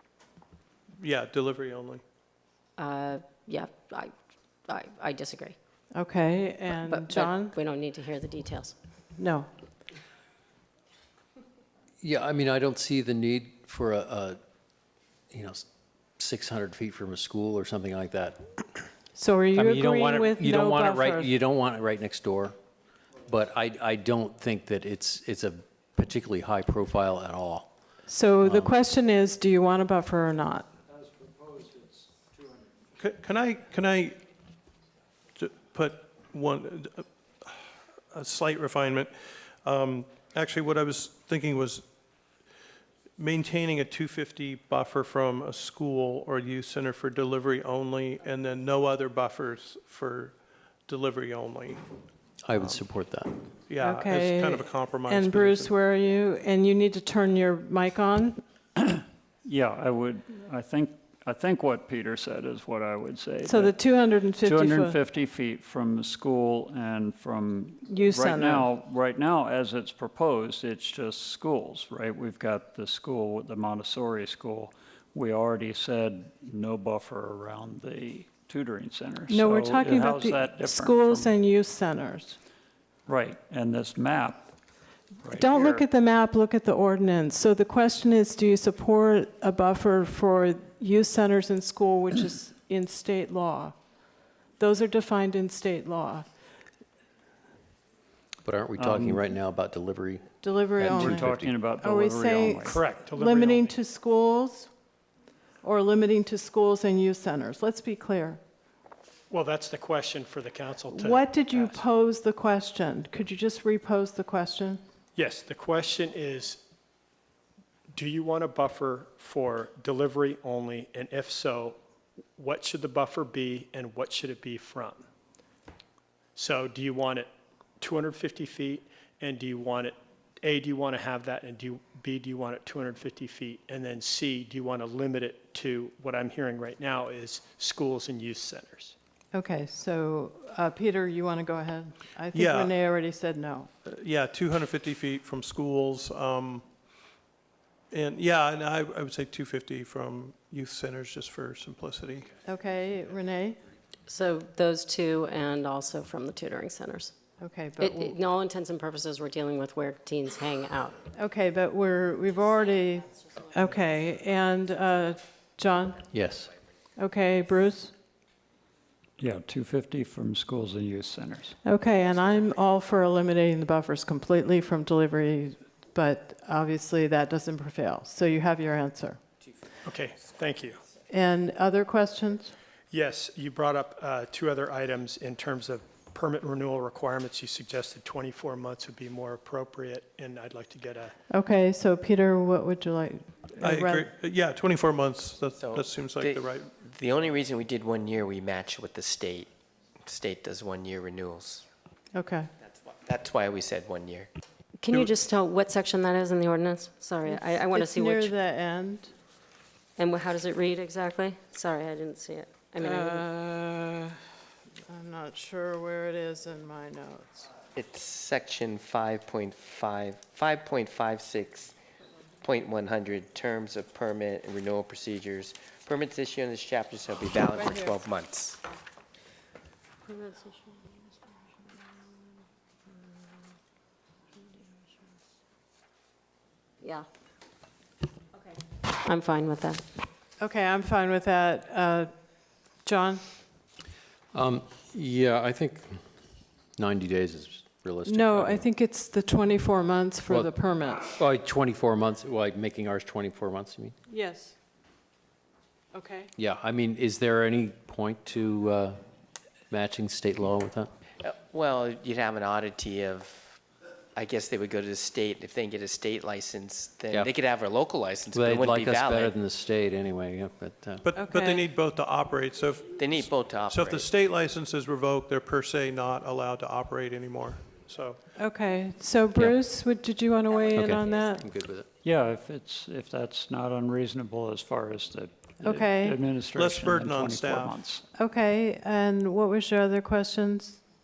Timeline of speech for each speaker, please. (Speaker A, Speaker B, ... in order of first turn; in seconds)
Speaker A: 1.0-2.0, 33.0-34.2, 35.4-41.9, 43.2-51.8, 53.7-55.7, 142.3-142.7, 143.8-146.7, 147.9-152.3, 193.6-196.8, 271.0-272.9, 273.7-278.2, 286.5-287.8
Speaker B: 2.8-4.1, 4.7-5.5, 6.9-8.7, 154.1-157.1, 157.8-161.0, 204.8-208.3, 210.0-213.3, 230.1-231.0, 236.8-237.1, 239.0-239.8, 280.5-281.4
Speaker C: 5.9-7.5, 9.2-9.5, 19.1-21.3, 28.1-30.7, 53.8-58.4, 63.4-65.0, 67.9-68.7, 79.3-82.4, 85.3-93.7, 94.6-96.3, 100.4-104.7, 105.6-108.4, 110.9-114.8, 139.3-143.7, 152.4-153.6, 157.4-158.2, 161.1-166.0, 167.0-167.9, 171.6-179.2, 181.1-182.5, 191.3-194.1, 202.1-202.5, 207.2-209.1, 212.8-214.2, 214.9-217.5, 227.5-228.0, 240.4-242.1, 242.8-243.2, 248.1-251.1, 254.1-254.6, 255.9-256.3, 271.1-271.6, 278.4-281.5, 285.6-286.2, 288.1-290.8
Speaker D: 12.0-14.4, 15.3-15.6, 16.2-18.5, 19.5-22.6, 23.2-27.7, 28.4-28.8, 52.4-53.3, 98.4-101.5, 166.1-166.5, 244.3-246.0, 246.8-248.7, 251.0-253.9, 256.4-259.0, 259.7-260.9, 268.3-271.1, 280.7-281.9
Speaker E: 31.1-32.1, 58.9-81.3, 83.1-84.5, 85.2-85.8, 98.8-99.2, 100.8-102.8, 169.2-171.6, 282.0-288.0
Speaker F: 102.6-103.7, 109.3-111.8, 115.1-116.6, 117.9-121.8, 122.4-125.0, 126.3-138.9, 179.8-180.8, 182.9-191.1
Speaker G: 196.8-199.5, 200.1-201.6, 203.0-204.3, 217.8-221.7, 222.4-228.5, 261.2-263.4, 264.2-269.3, 273.0-274.0